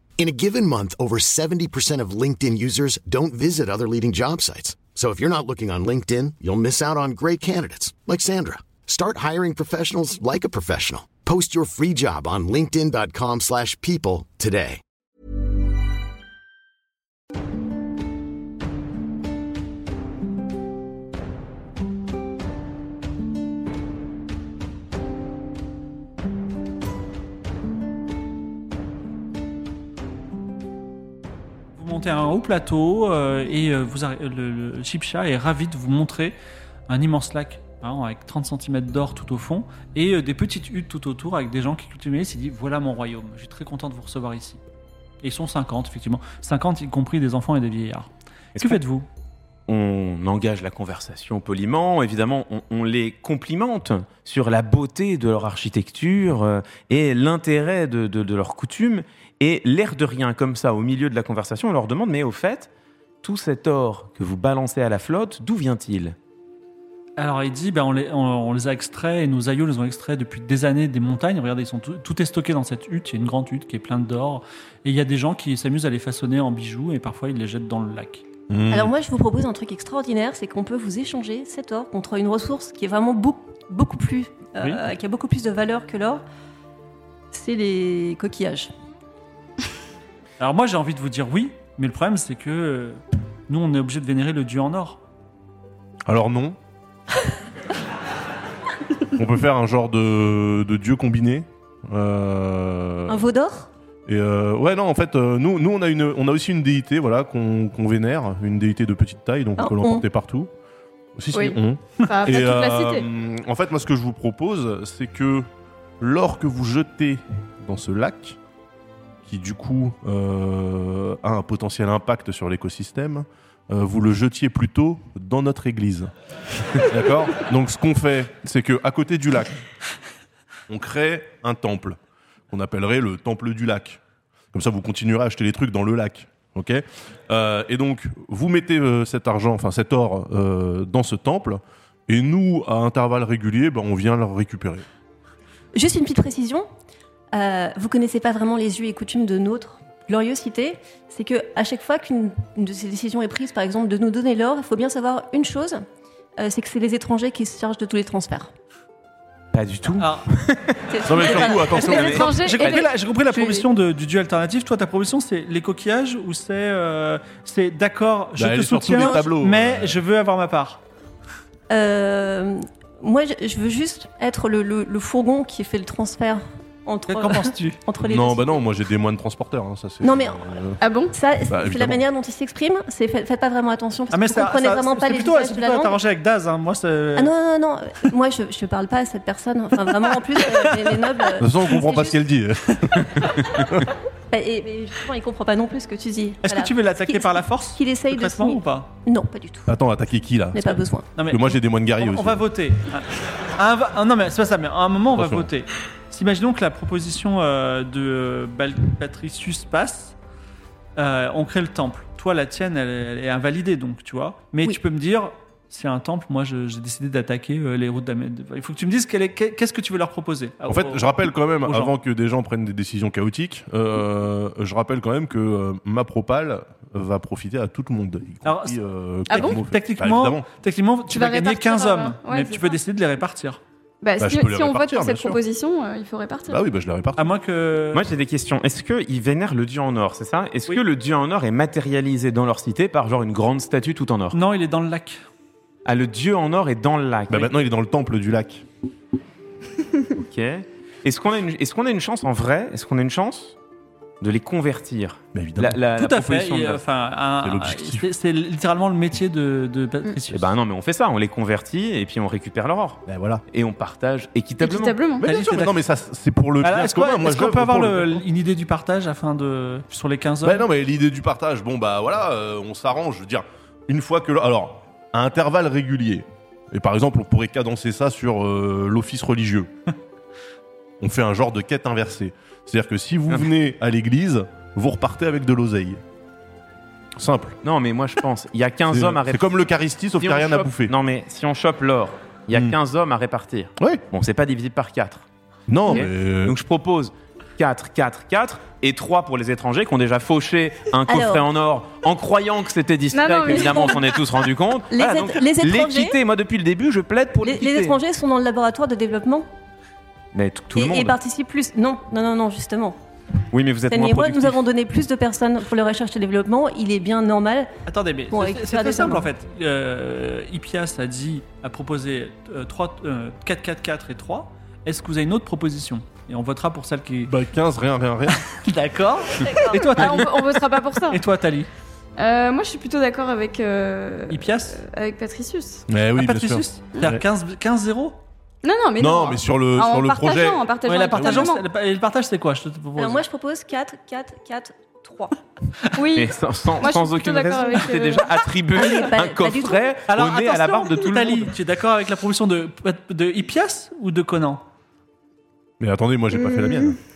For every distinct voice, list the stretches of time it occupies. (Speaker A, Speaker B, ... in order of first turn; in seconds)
Speaker A: 0.2-14.8
Speaker B: 31.8-36.4, 36.9-44.6, 45.2-49.0, 67.2-78.2, 90.4-95.0, 160.0-160.4, 161.9-170.8, 177.1-177.8, 184.1-187.3, 190.4-191.0, 196.4-198.9, 201.2-210.1, 210.9-221.9, 228.4-228.8, 229.3-233.6, 237.2-238.0, 244.3-245.2, 255.9-260.5, 265.2-265.8, 266.6-270.6, 317.9-327.4, 328.3-331.7, 334.3-334.8, 336.1-338.2, 340.9-343.2, 350.1-354.6
Speaker C: 48.5-48.8, 49.7-62.7, 63.2-66.2, 159.5-162.2, 237.9-244.4, 245.8-247.5, 250.2-253.5, 254.2-256.8, 260.3-265.0, 287.6-289.5, 290.2-295.2, 295.9-307.9, 310.3-311.1, 313.5-314.6, 346.1-351.5
Speaker D: 78.5-78.9, 96.0-96.6, 99.1-103.2, 104.0-110.5, 111.2-115.5, 116.0-118.4, 119.2-126.1, 126.8-129.6, 130.7-132.0, 132.5-134.0, 134.5-144.8, 161.0-162.3, 168.4-170.0, 178.0-180.8, 181.5-182.0, 191.4-193.9, 199.7-202.4, 205.1-205.5, 220.7-230.4, 234.2-235.4, 236.5-237.3, 247.3-248.6, 255.3-255.8, 257.4-258.1, 263.1-263.4, 265.2-268.2, 270.4-279.7, 281.0-286.0, 287.2-287.6, 288.9-290.9, 293.8-294.0, 295.7-296.6, 327.3-328.5, 335.9-337.2, 339.0-341.5, 355.8-357.0
Speaker E: 78.7-86.2, 87.3-88.7, 103.1-103.7, 109.6-110.0, 145.7-146.7, 147.3-155.8, 156.4-158.5, 160.9-162.3, 163.2-163.7, 168.9-169.2, 171.7-178.5, 180.0-180.4, 181.1-186.0, 187.1-192.2, 194.3-199.7, 200.5-201.1, 301.1-301.4, 303.5-303.8, 304.9-306.2, 307.4-309.5, 310.7-313.0, 313.9-317.7, 318.3-319.3, 329.4-330.0, 343.0-345.4, 348.7-350.0
Speaker F: 111.3-113.1, 161.8-162.9, 180.8-181.1, 229.3-229.6, 231.1-232.8, 234.0-236.6, 264.6-265.3, 303.1-304.1, 329.6-331.2, 332.2-335.9, 338.6-341.6, 345.9-348.3, 356.5-356.8